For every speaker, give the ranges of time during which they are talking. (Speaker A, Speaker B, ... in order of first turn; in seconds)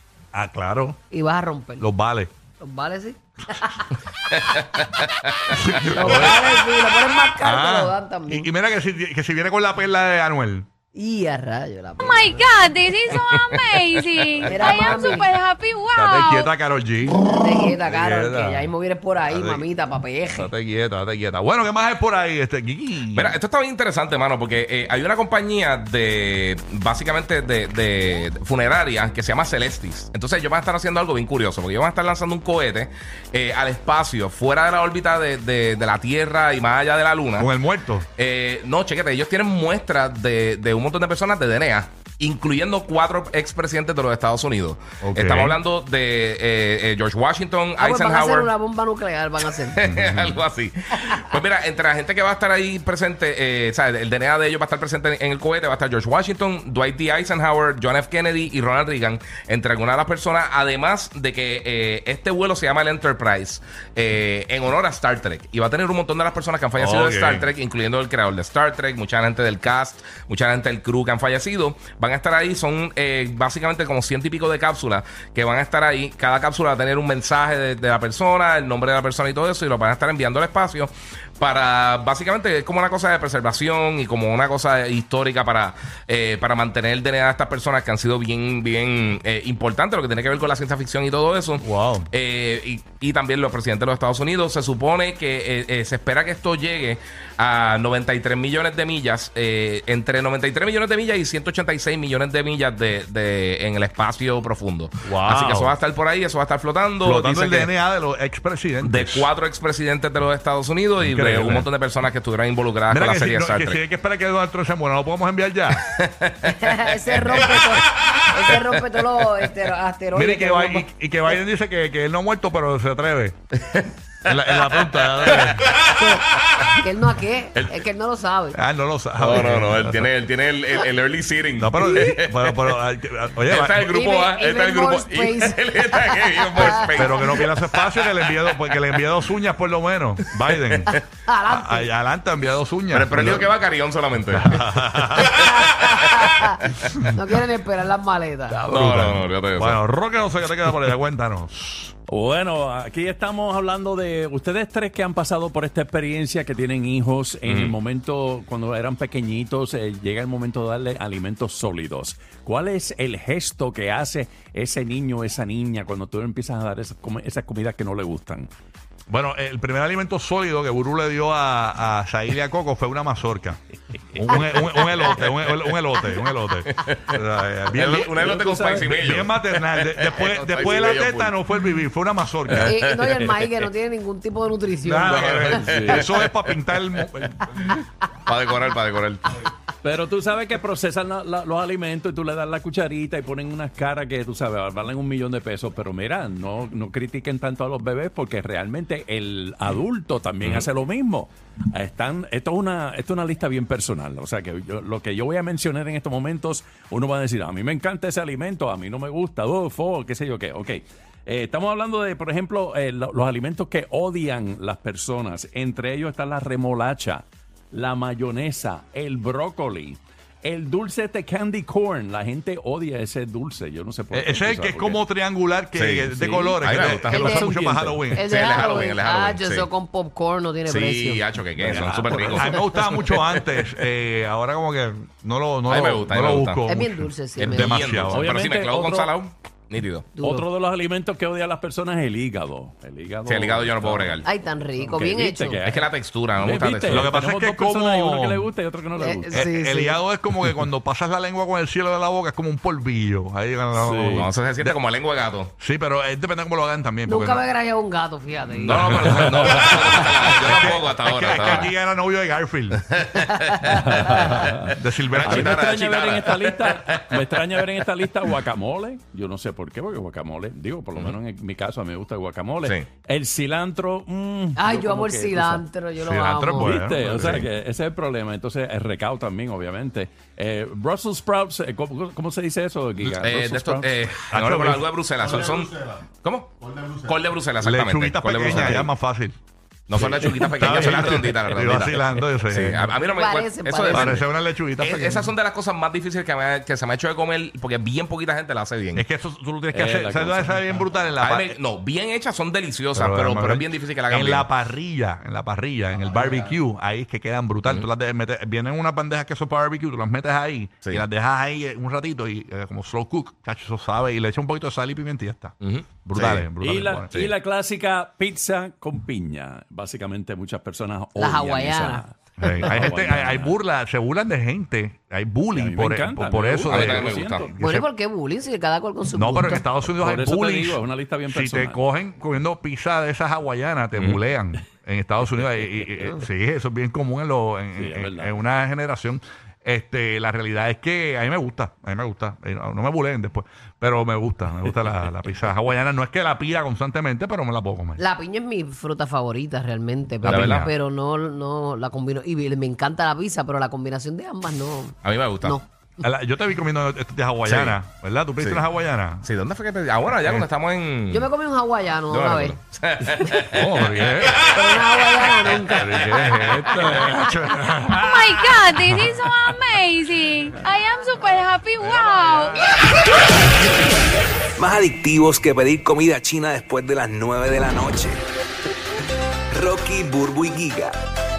Speaker A: 0.3-1.0, 1.8-2.3, 5.5-6.4, 7.4-10.7, 15.9-18.7, 19.3-19.6, 20.2-23.4, 37.4-38.1, 45.0-45.6, 49.8-50.5, 66.8-67.5, 91.6-92.1, 105.0-105.7, 107.0-109.3, 111.0-111.7, 112.9-115.9, 120.1-123.3, 124.2-125.7, 128.5-130.1, 131.6-133.9, 136.6-143.5, 144.3-145.4, 148.5-151.9, 169.1-173.6, 174.1-178.3, 178.9-182.7, 184.8-187.8, 224.1-228.3, 231.6-238.2, 246.9-248.5, 249.3-254.8, 255.6-257.4, 258.9-262.8, 264.7-265.6, 276.0-277.5, 284.3-284.9, 287.6-289.3, 289.9-292.9, 293.9-295.3, 298.9-301.6, 302.9-317.3, 322.4-327.9, 329.1-348.0, 350.2-350.7, 356.0-359.3, 363.0-364.4, 365.4-369.1, 371.8-372.6
Speaker B: 1.1-1.9, 2.6-5.0, 5.8-8.5, 10.9-12.6, 14.4-15.3, 17.3-20.5, 47.8-49.8, 116.5-120.9, 125.9-128.6, 133.9-137.3, 141.3-141.9, 145.3-146.6, 147.1-148.6, 182.7-185.6, 227.1-231.2, 236.7-237.9, 240.2-240.5, 244.2-245.7, 249.0-250.0, 257.1-259.1, 263.2-264.5, 274.6-276.7, 293.1-294.2, 321.2-322.5, 327.6-329.7, 348.0-355.6, 361.1-362.6, 364.5-367.4
Speaker C: 5.2-6.2, 13.3-14.0, 23.1-37.5, 38.2-48.5, 49.6-107.7, 108.8-113.8, 115.9-117.8, 124.5-125.9, 129.2-132.8, 133.5-139.1, 142.9-145.4, 148.7-149.8, 157.4-157.7, 176.7-177.1, 177.7-181.4, 185.1-187.1, 188.3-189.5, 225.7-227.5, 228.2-229.7, 230.7-233.7, 235.7-236.6, 237.4-240.1, 243.2-244.2, 245.7-247.1, 254.1-255.5, 258.6-261.7, 262.9-263.9, 265.1-267.2, 283.2-288.9, 289.9-299.0, 301.2-304.5, 315.6-316.5, 326.7-327.5, 350.2-350.7, 355.0-355.6, 357.4-357.8, 359.2-361.3, 362.1-364.6
Speaker D: 12.0-16.5, 367.9-372.6
Speaker E: 152.1-168.5, 174.2-175.1, 177.9-179.1, 185.7-186.0, 189.8-225.0, 226.1-227.0, 227.5-228.4, 231.6-232.5, 238.1-239.1, 240.2-244.2, 244.8-249.4, 253.8-254.2, 258.7-259.1, 263.7-275.6, 276.6-284.2, 288.5-288.9, 299.7-300.6, 316.6-323.5, 325.5-327.5, 329.9-331.8, 337.8-338.4
Speaker F: 374.6-378.2, 379.5-380.9